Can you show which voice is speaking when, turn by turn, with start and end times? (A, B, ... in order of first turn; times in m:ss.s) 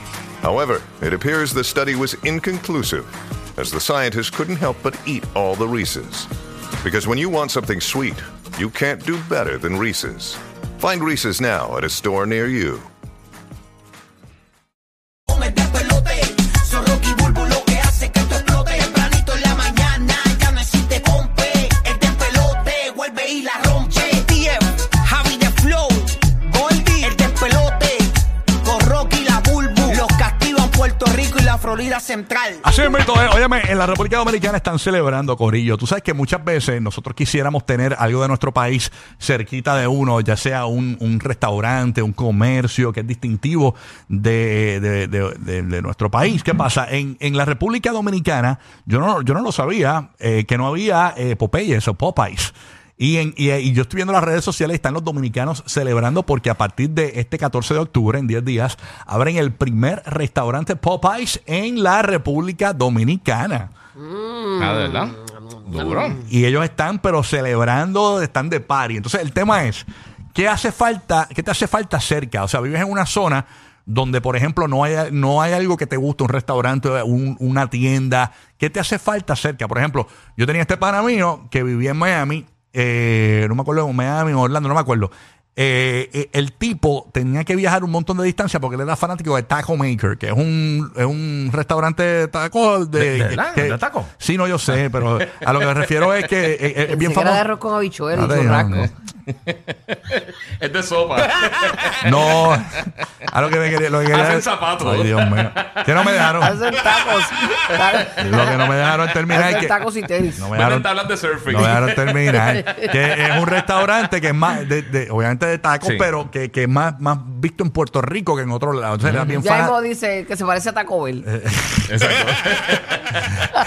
0:00.4-0:06.3 A
0:06.8-0:12.9 A
0:15.3-0:32.6 B
0:32.6-1:03.7 C
1:04.0-1:06.3 D
1:04.6-1:06.2 E
1:06.2-1:37.5 C
1:33.0-1:34.1 E
1:35.4-1:35.7 E
1:36.9-1:38.9 D
1:38.1-1:38.9 C
1:39.5-1:42.5 E
1:42.0-1:46.6 C
1:44.1-1:46.3 E
1:46.4-1:48.7 D
1:48.2-1:49.8 C
1:49.3-1:50.5 D
1:50.4-1:50.9 C
1:50.5-1:52.8 E
1:51.4-1:59.8 C
1:52.6-1:52.8 D
1:55.8-1:56.1 E
1:59.0-1:59.4 E
1:59.4-2:01.3 D
2:01.2-2:02.3 C
2:01.9-2:03.2 E